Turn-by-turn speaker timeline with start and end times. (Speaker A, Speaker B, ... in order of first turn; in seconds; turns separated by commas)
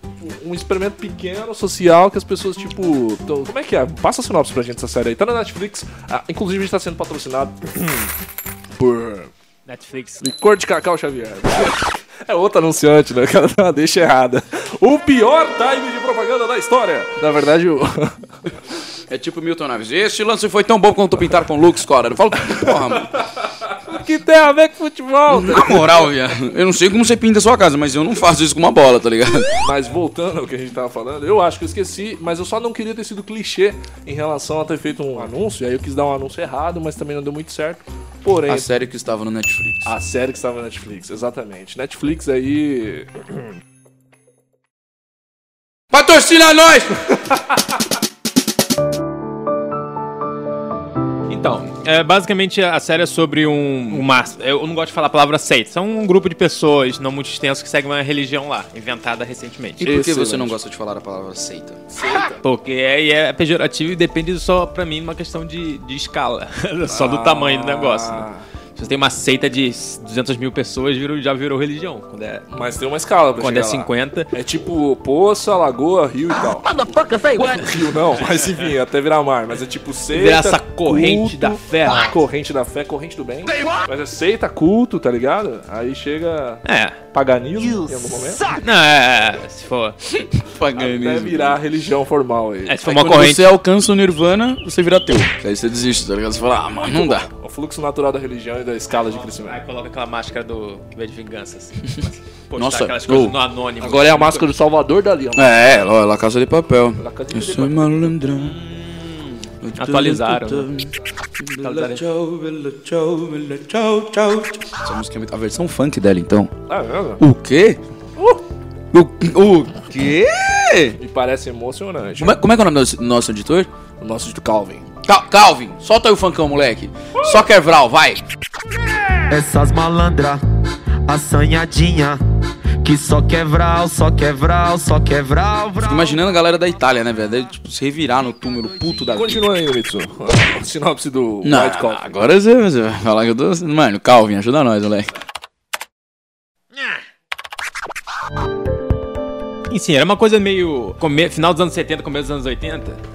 Speaker A: 0.2-8.1, Speaker A: 8.7-9.3, Speaker B: 9.7-10.2, Speaker A: 10.2-18.4, Speaker C: 19.1-23.1, Speaker A: 22.5-26.1, Speaker C: 25.3-29.5, Speaker A: 29.6-38.7, Speaker C: 38.5-39.9, Speaker A: 39.8-43.4, Speaker C: 45.9-47.1, Speaker B: 51.3-59.9, Speaker A: 59.8-60.6, Speaker C: 59.8-61.8, Speaker A: 61.9-62.4, Speaker B: 62.4-72.5, Speaker A: 66.9-68.4, Speaker A: 72.5-88.5, Speaker B: 73.4-74.3, Speaker B: 78.2-78.7, Speaker B: 80.1-82.2, Speaker B: 86.6-87.0, Speaker B: 88.5-90.0, Speaker C: 90.1-91.6, Speaker A: 90.7-92.8, Speaker B: 92.7-93.5, Speaker C: 92.8-97.3, Speaker A: 96.9-99.6, Speaker B: 98.9-104.5, Speaker C: 102.5-103.4, Speaker A: 103.8-105.6, Speaker C: 105.3-108.6, Speaker A: 107.0-108.2, Speaker B: 108.4-110.7, Speaker C: 109.6-116.5, Speaker B: 111.6-112.0, Speaker A: 116.7-117.2, Speaker C: 117.2-117.8, Speaker C: 118.9-121.0, Speaker A: 121.0-122.3, Speaker C: 122.2-123.7, Speaker A: 124.0-124.8, Speaker C: 125.0-128.2, Speaker A: 127.2-127.4, Speaker D: 129.3-130.4, Speaker D: 131.1-132.2, Speaker D: 132.8-136.3, Speaker C: 135.8-139.5, Speaker A: 139.1-142.1, Speaker C: 141.4-145.1, Speaker B: 149.7-153.0